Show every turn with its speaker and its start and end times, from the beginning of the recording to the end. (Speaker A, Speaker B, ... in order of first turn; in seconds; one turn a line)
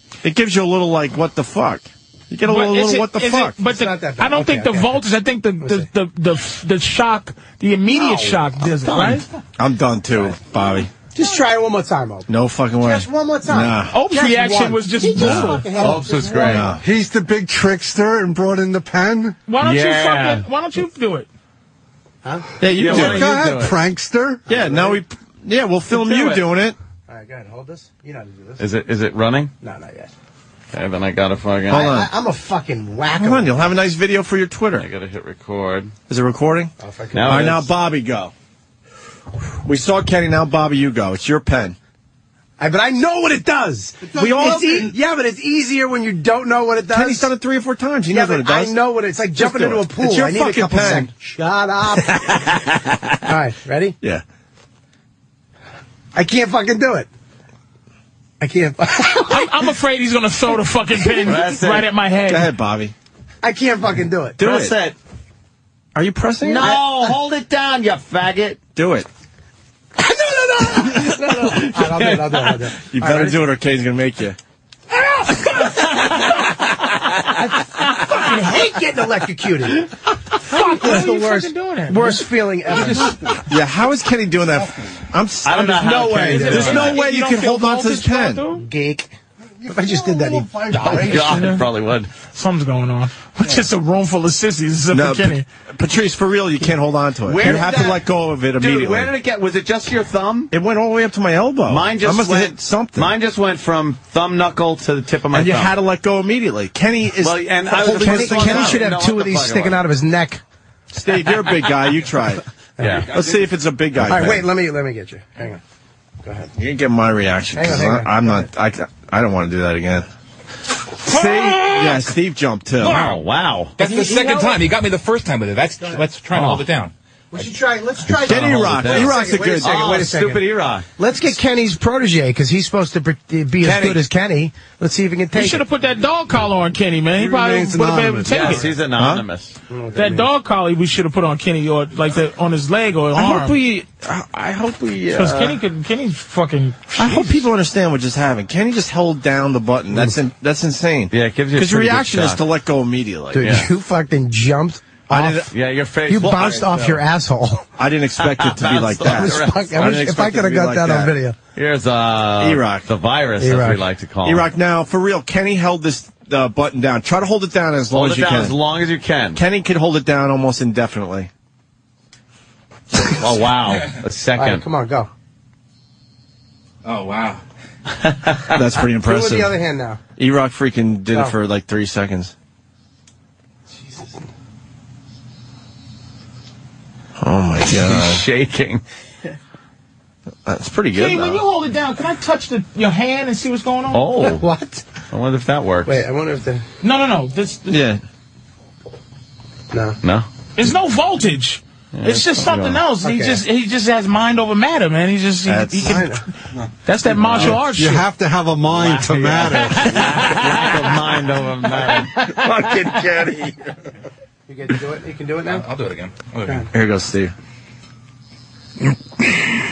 Speaker A: 0.2-3.6
Speaker B: 2.5-9.3
Speaker C: 3.6-5.0
Speaker D: 8.8-9.2
Speaker A: 9.6-10.9
Speaker C: 11.1-12.3
Speaker A: 12.3-13.9
Speaker C: 12.8-16.7
Speaker B: 13.9-15.7
Speaker A: 15.2-15.6
Speaker D: 15.8-16.7
Speaker A: 16.4-16.8
Speaker E: 16.7-19.4
Speaker B: 19.5-21.3
Speaker D: 19.6-20.4
Speaker A: 22.6-23.4
Speaker D: 22.8-23.8
Speaker E: 22.8-24.7
Speaker A: 24.5-26.8
Speaker C: 24.5-24.9
Speaker D: 26.1-26.4
Speaker C: 27.1-28.6
Speaker D: 28.6-29.5
Speaker C: 29.6-30.1
Speaker D: 30.7-31.9
Speaker A: 31.7-32.1
Speaker C: 31.7-33.6
Speaker A: 33.2-34.9
Speaker D: 34.8-35.9
Speaker A: 36.1-36.7
Speaker C: 36.8-37.6
Speaker D: 37.1-37.6
Speaker A: 37.3-38.3
Speaker A: 39.6-41.8
Speaker C: 42.6-47.3
Speaker E: 44.0-44.9
Speaker A: 44.1-44.9
Speaker A: 46.9-48.8
Speaker C: 48.1-52.6
Speaker A: 49.4-51.1
Speaker C: 53.2-54.0
Speaker C: 56.1-57.1
Speaker C: 58.4-59.5
Speaker B: 59.1-62.5
Speaker D: 61.2-61.9
Speaker A: 62.3-62.9
Speaker C: 63.4-64.4
Speaker A: 64.4-64.8
Speaker D: 64.4-65.0
Speaker A: 66.0-66.8
Speaker D: 66.4-68.6
Speaker A: 68.8-69.1
Speaker C: 70.0-73.4
Speaker D: 70.9-72.5
Speaker A: 72.9-74.4
Speaker C: 77.3-79.9
Speaker B: 78.1-78.8
Speaker B: 80.4-82.3
Speaker C: 80.5-83.2
Speaker E: 82.7-83.4
Speaker A: 83.5-88.4
Speaker D: 85.4-87.0
Speaker C: 85.8-86.7
Speaker B: 86.2-88.7
Speaker C: 88.6-89.1
Speaker E: 89.6-91.5
Speaker C: 89.7-91.4
Speaker D: 90.7-92.1
Speaker B: 91.0-91.7
Speaker B: 92.3-95.5
Speaker A: 94.9-99.1
Speaker D: 97.3-98.0
Speaker D: 98.6-100.5
Speaker A: 100.5-103.1
Speaker D: 101.7-105.7
Speaker A: 105.3-108.8
Speaker D: 107.2-109.8
Speaker C: 107.7-110.4
Speaker A: 110.9-112.4
Speaker C: 112.8-113.1
Speaker D: 112.8-113.1
Speaker A: 113.1-114.4
Speaker C: 114.0-115.6
Speaker C: 116.2-116.5
Speaker A: 116.6-120.1
Speaker C: 117.5-118.5
Speaker A: 121.0-123.1
Speaker D: 121.2-122.0
Speaker F: 122.8-123.2
Speaker D: 122.8-123.8
Speaker F: 123.8-126.9
Speaker C: 123.8-124.5
Speaker D: 126.3-126.7
Speaker C: 127.3-130.5
Speaker D: 128.1-130.9
Speaker A: 128.2-129.9
Speaker C: 131.0-135.6
Speaker F: 133.6-134.0
Speaker B: 135.3-138.7
Speaker E: 137.1-138.8
Speaker D: 138.3-139.6
Speaker A: 139.0-139.2
Speaker C: 139.7-140.3
Speaker B: 139.9-143.6
Speaker A: 143.1-145.6
Speaker B: 145.1-147.4
Speaker A: 147.0-153.6
Speaker D: 151.1-152.4
Speaker C: 153.3-155.5
Speaker D: 153.4-153.7
Speaker A: 155.1-155.5
Speaker D: 155.5-157.0
Speaker C: 156.1-157.7
Speaker A: 157.8-161.2
Speaker D: 158.2-160.0
Speaker C: 159.0-161.4
Speaker D: 161.6-164.5
Speaker A: 162.4-162.9
Speaker C: 163.4-163.8
Speaker A: 164.2-168.6
Speaker D: 167.9-169.4
Speaker A: 169.3-171.3
Speaker D: 172.9-174.6
Speaker C: 174.4-175.1
Speaker F: 176.8-177.4
Speaker D: 178.1-178.4
Speaker A: 178.5-179.6
Speaker C: 179.0-180.0
Speaker A: 180.2-182.3
Speaker A: 187.2-188.2
Speaker D: 187.7-188.8
Speaker A: 190.5-191.4
Speaker B: 190.9-194.0
Speaker D: 193.9-194.4
Speaker C: 194.2-194.8
Speaker D: 195.1-196.0
Speaker C: 195.8-196.6
Speaker B: 196.8-197.7
Speaker A: 197.7-198.0
Speaker C: 199.7-200.0
Speaker B: 200.6-206.1
Speaker D: 201.9-202.8
Speaker C: 203.0-203.4
Speaker A: 205.5-206.0
Speaker C: 205.8-206.2
Speaker B: 206.8-208.1
Speaker D: 207.2-207.6
Speaker E: 207.3-210.0
Speaker D: 208.7-212.1
Speaker B: 209.5-210.8
Speaker A: 212.4-213.5
Speaker C: 214.5-215.7
Speaker F: 215.4-216.7
Speaker A: 216.7-217.3